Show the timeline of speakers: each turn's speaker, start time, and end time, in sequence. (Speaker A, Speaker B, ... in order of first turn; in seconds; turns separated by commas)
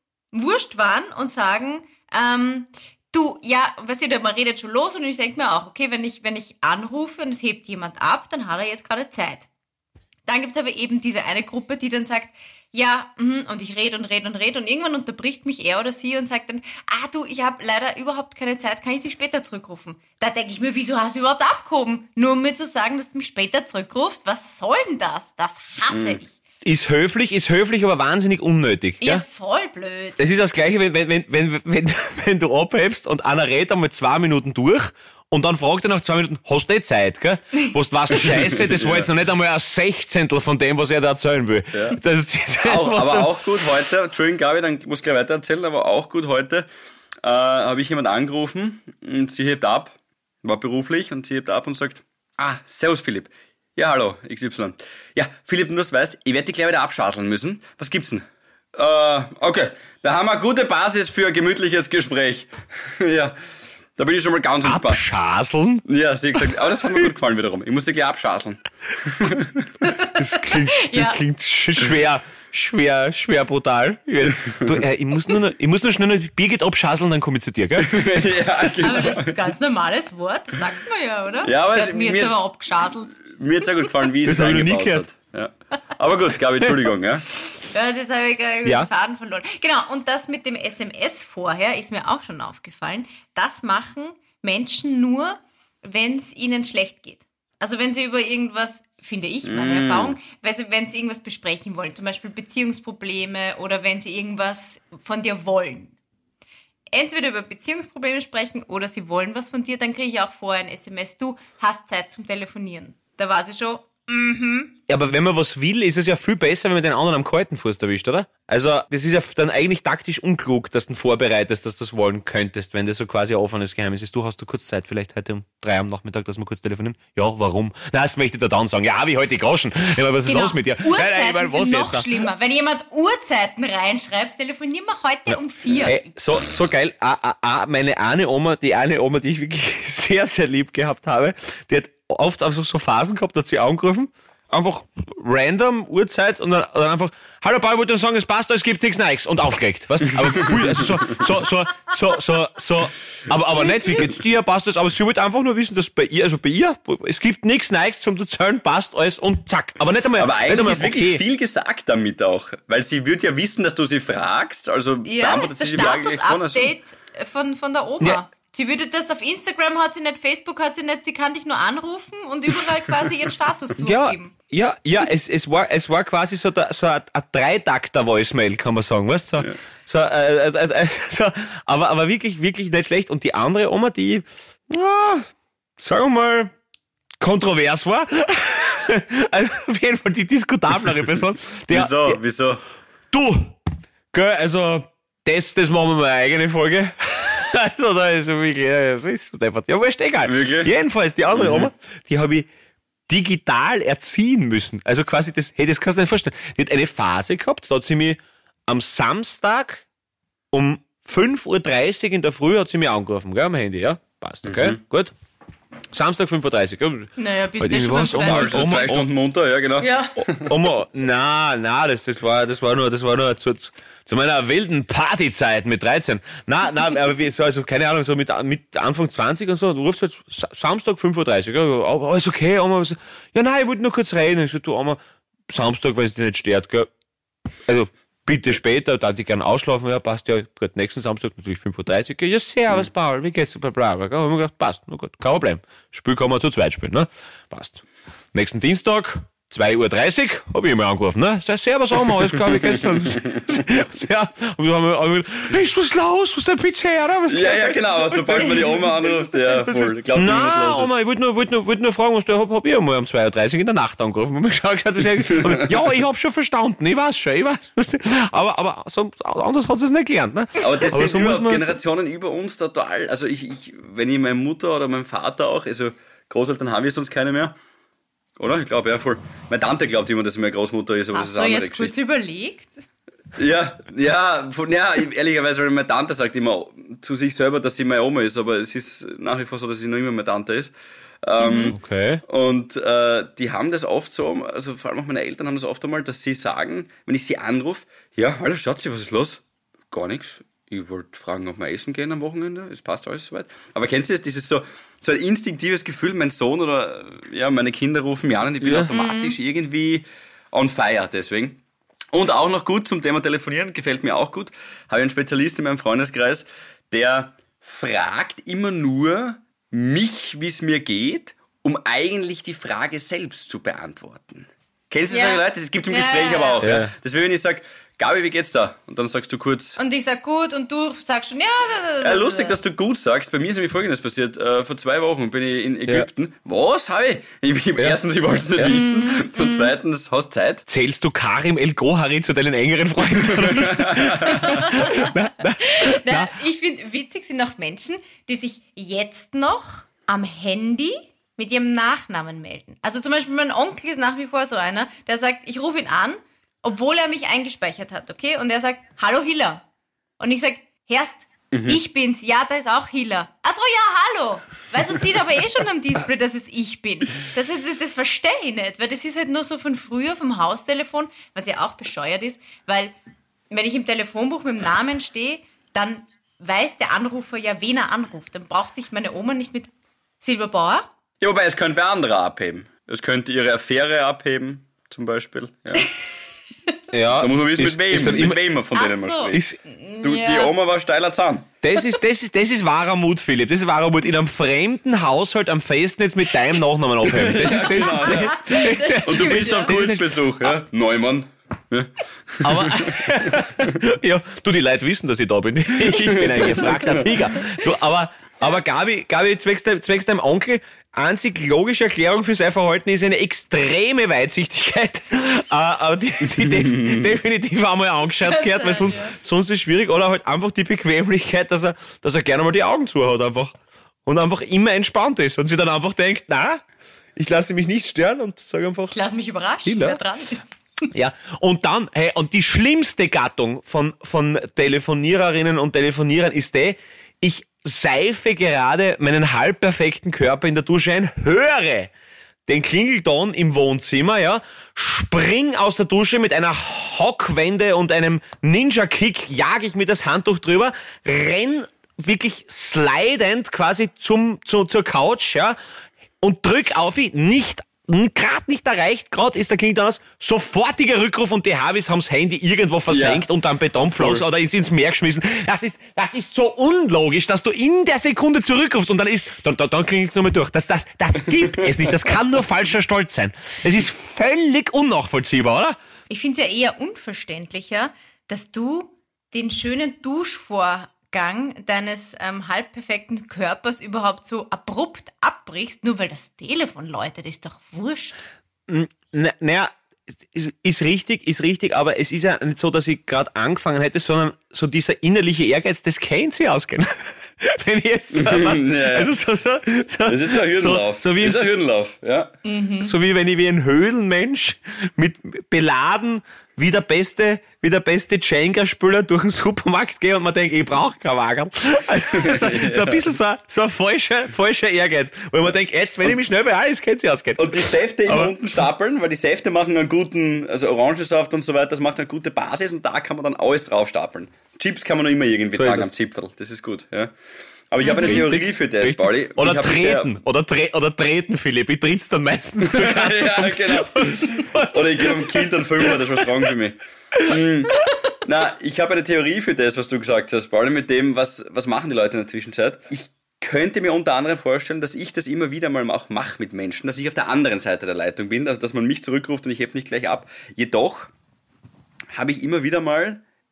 Speaker A: 0.3-9.5, Speaker A: 10.2-26.3, Speaker B: 25.9-26.2, Speaker C: 26.6-29.2, Speaker A: 29.0-30.2, Speaker C: 30.2-43.5, Speaker B: 38.1-39.1, Speaker B: 41.7-42.0, Speaker B: 42.6-46.7, Speaker B: 47.2-63.4, Speaker B: 64.0-65.0, Speaker C: 64.6-67.1, Speaker B: 65.9-69.7, Speaker A: 69.8-71.2, Speaker C: 70.1-77.9, Speaker B: 74.3-74.7, Speaker B: 77.8-79.4, Speaker A: 78.8-83.1, Speaker B: 81.4-82.4, Speaker B: 83.2-87.2, Speaker C: 84.2-85.0, Speaker A: 87.5-105.9, Speaker B: 99.4-100.2, Speaker A: 106.9-114.7, Speaker C: 114.9-132.1, Speaker A: 130.2-136.1, Speaker C: 135.3-161.2, Speaker B: 150.7-151.1, Speaker B: 160.2-166.8, Speaker A: 165.0-174.3, Speaker C: 173.8-186.5, Speaker C: 187.2-192.2, Speaker B: 191.7-192.6, Speaker C: 193.1-193.6, Speaker C: 194.1-202.5, Speaker B: 200.2-200.7, Speaker B: 201.3-201.7, Speaker C: 203.1-209.8, Speaker C: 210.5-215.1, Speaker B: 214.4-214.8, Speaker C: 215.9-219.1, Speaker A: 217.2-218.9, Speaker B: 218.1-220.5, Speaker A: 219.8-220.2, Speaker C: 220.2-236.9, Speaker C: 237.7-271.8, Speaker B: 257.3-260.9, Speaker B: 265.3-265.8, Speaker B: 270.6-277.6, Speaker B: 278.4-281.9, Speaker A: 281.1-282.8, Speaker B: 283.4-311.6, Speaker A: 291.4-291.7, Speaker C: 291.7-292.2, Speaker C: 308.6-308.9, Speaker A: 308.9-309.4, Speaker B: 312.1-329.8, Speaker A: 325.1-326.6, Speaker C: 326.6-326.9, Speaker A: 329.8-332.6, Speaker B: 332.0-340.7, Speaker A: 338.6-339.7, Speaker C: 340.7-346.3, Speaker B: 343.1-344.4, Speaker A: 344.2-359.6, Speaker A: 360.2-372.9, Speaker B: 361.5-361.8, Speaker A: 373.5-379.7, Speaker A: 380.2-380.9, Speaker B: 381.2-385.9, Speaker C: 386.9-388.4, Speaker B: 387.2-389.5, Speaker A: 388.7-390.5, Speaker C: 389.3-389.6, Speaker B: 390.0-391.5, Speaker C: 391.6-400.5, Speaker B: 397.0-403.7, Speaker A: 397.5-399.7, Speaker C: 402.4-426.6, Speaker B: 405.9-407.2, Speaker B: 416.4-417.1, Speaker A: 418.2-419.1, Speaker C: 427.1-428.9, Speaker A: 428.9-430.9, Speaker C: 429.6-430.0, Speaker C: 430.9-441.9, Speaker C: 442.5-455.6, Speaker C: 456.2-475.8, Speaker B: 462.9-463.2, Speaker B: 463.9-464.2, Speaker A: 476.1-488.2, Speaker C: 488.7-489.7, Speaker C: 490.2-501.5, Speaker B: 498.1-499.1, Speaker B: 500.1-502.3, Speaker A: 502.4-502.9, Speaker C: 502.8-518.3, Speaker B: 512.1-513.1, Speaker B: 517.4-527.1, Speaker C: 525.5-525.9, Speaker B: 527.7-530.1, Speaker A: 527.8-528.3, Speaker C: 527.9-536.5, Speaker B: 532.6-551.1, Speaker B: 552.1-553.2